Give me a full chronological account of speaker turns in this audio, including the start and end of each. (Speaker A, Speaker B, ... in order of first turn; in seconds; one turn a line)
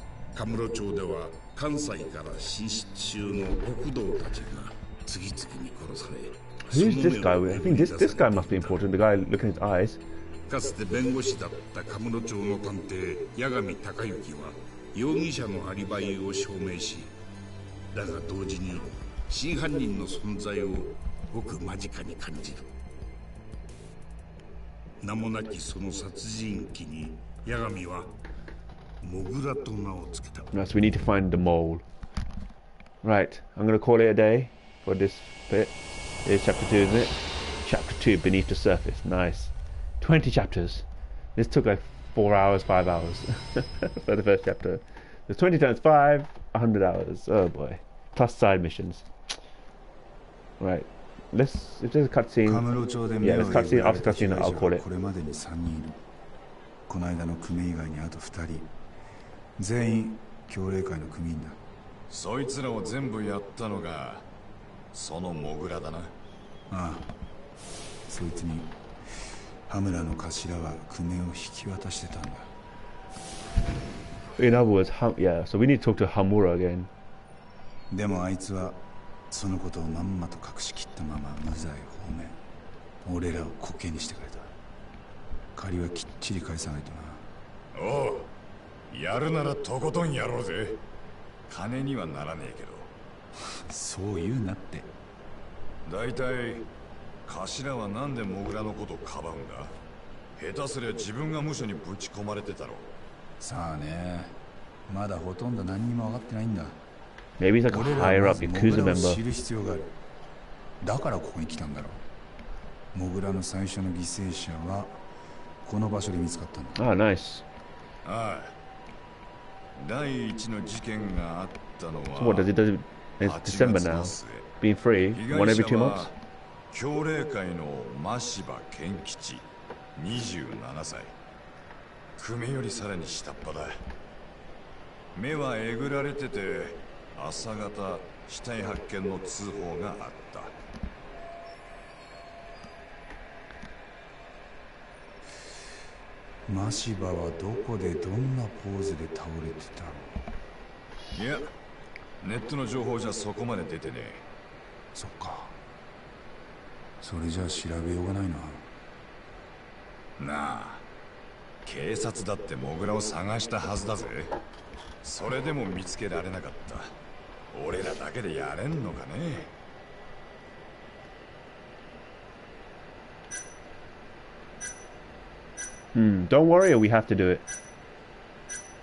Speaker A: 0.3-8.8
Speaker B: 6.7-10.0
Speaker A: 10.5-17.1
Speaker A: 17.9-22.7
Speaker A: 25.0-28.1
Speaker A: 29.0-30.5
Speaker B: 30.5-31.8
Speaker B: 33.0-35.7
Speaker B: 36.2-40.9
Speaker B: 41.4-49.1
Speaker B: 50.6-54.8
Speaker C: 52.5-56.0
Speaker C: 56.9-58.7
Speaker C: 59.6-61.6
Speaker D: 62.1-64.3
Speaker D: 64.9-66.1
Speaker C: 66.7-67.1
Speaker C: 68.1-68.8
Speaker C: 69.7-72.5
Speaker B: 74.4-76.9
Speaker C: 77.9-82.4
Speaker C: 83.0-84.5
Speaker C: 85.5-87.3
Speaker D: 87.7-88.3
Speaker D: 88.9-90.8
Speaker D: 91.5-92.9
Speaker C: 93.6-94.9
Speaker D: 95.8-96.7
Speaker D: 97.3-99.8
Speaker D: 100.4-102.9
Speaker C: 103.4-104.4
Speaker C: 104.9-106.8
Speaker B: 107.4-109.2
Speaker C: 107.7-109.9
Speaker C: 110.8-112.0
Speaker C: 112.9-114.9
Speaker C: 115.6-116.8
Speaker B: 116.8-117.5
Speaker D: 118.0-118.5
Speaker D: 119.8-122.5
Speaker B: 122.2-126.1
Speaker D: 123.2-124.5
Speaker D: 125.1-126.1
Speaker D: 126.7-131.1
Speaker D: 132.2-133.8
Speaker D: 135.2-140.6
Speaker C: 146.5-150.2
Speaker D: 151.1-151.5
Speaker D: 152.2-154.2
Speaker C: 154.9-155.6
Speaker C: 157.0-158.7
Speaker D: 160.2-160.8
Speaker D: 161.7-164.4
Speaker D: 165.0-166.9
Speaker D: 167.5-169.5
Speaker B: 175.9-177.4